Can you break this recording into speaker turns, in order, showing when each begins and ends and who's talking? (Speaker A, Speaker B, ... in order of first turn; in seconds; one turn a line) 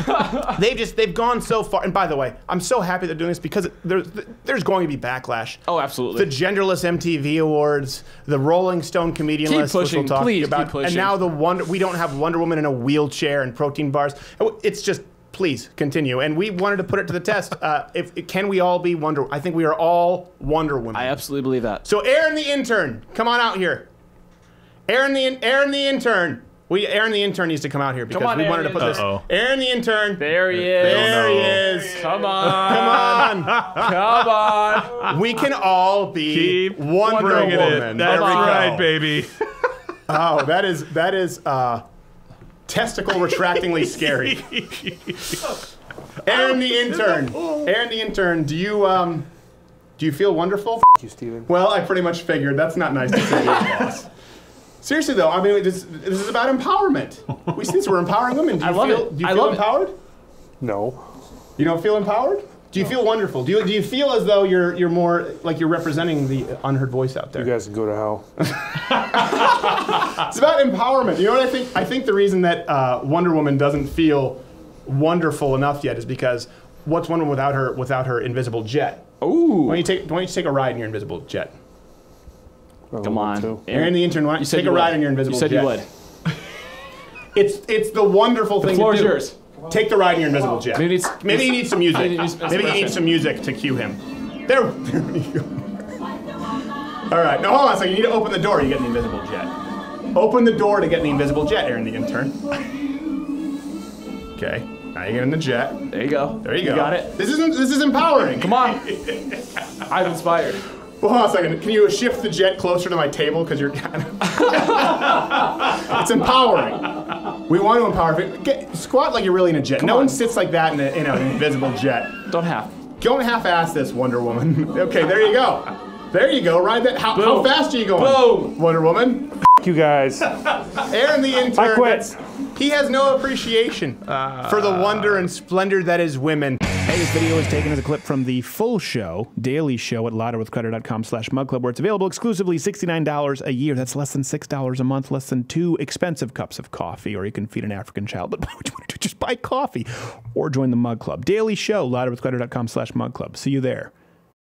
Speaker A: 0.2-5.6
Speaker B: 5.7-6.3
Speaker A: 6.1-21.2
Speaker B: 9.4-11.2
Speaker B: 20.9-21.8
Speaker A: 21.8-23.9
Speaker A: 24.9-33.9
Speaker B: 28.1-29.0
Speaker C: 28.8-29.2
Speaker B: 30.2-35.0
Speaker C: 30.5-31.8
Speaker C: 32.4-33.9
Speaker A: 34.9-38.9
Speaker C: 36.3-39.5
Speaker B: 37.0-38.7
Speaker A: 40.1-41.8
Speaker A: 42.7-44.5
Speaker C: 44.3-45.4
Speaker A: 46.2-49.3
Speaker A: 50.0-50.9
Speaker D: 51.0-51.5
Speaker A: 51.5-54.1
Speaker A: 54.8-60.0
Speaker B: 58.6-59.6
Speaker D: 60.6-61.0
Speaker A: 61.6-67.5
Speaker D: 67.3-68.2
Speaker A: 68.4-79.1
Speaker B: 79.2-79.8
Speaker A: 79.7-81.5
Speaker D: 82.9-83.6
Speaker B: 83.0-85.9
Speaker A: 83.7-85.8
Speaker A: 87.3-95.7
Speaker B: 88.6-89.3
Speaker B: 90.7-93.0
Speaker A: 97.1-99.5
Speaker A: 100.1-102.4
Speaker A: 104.3-108.7
Speaker B: 105.9-107.1
Speaker B: 108.3-109.2
Speaker B: 109.8-110.6
Speaker A: 111.0-122.2
Speaker B: 119.8-120.2
Speaker B: 122.3-122.7
Speaker A: 123.0-129.3
Speaker B: 127.2-128.5
Speaker D: 129.6-130.3
Speaker A: 130.7-153.9
Speaker D: 131.5-132.1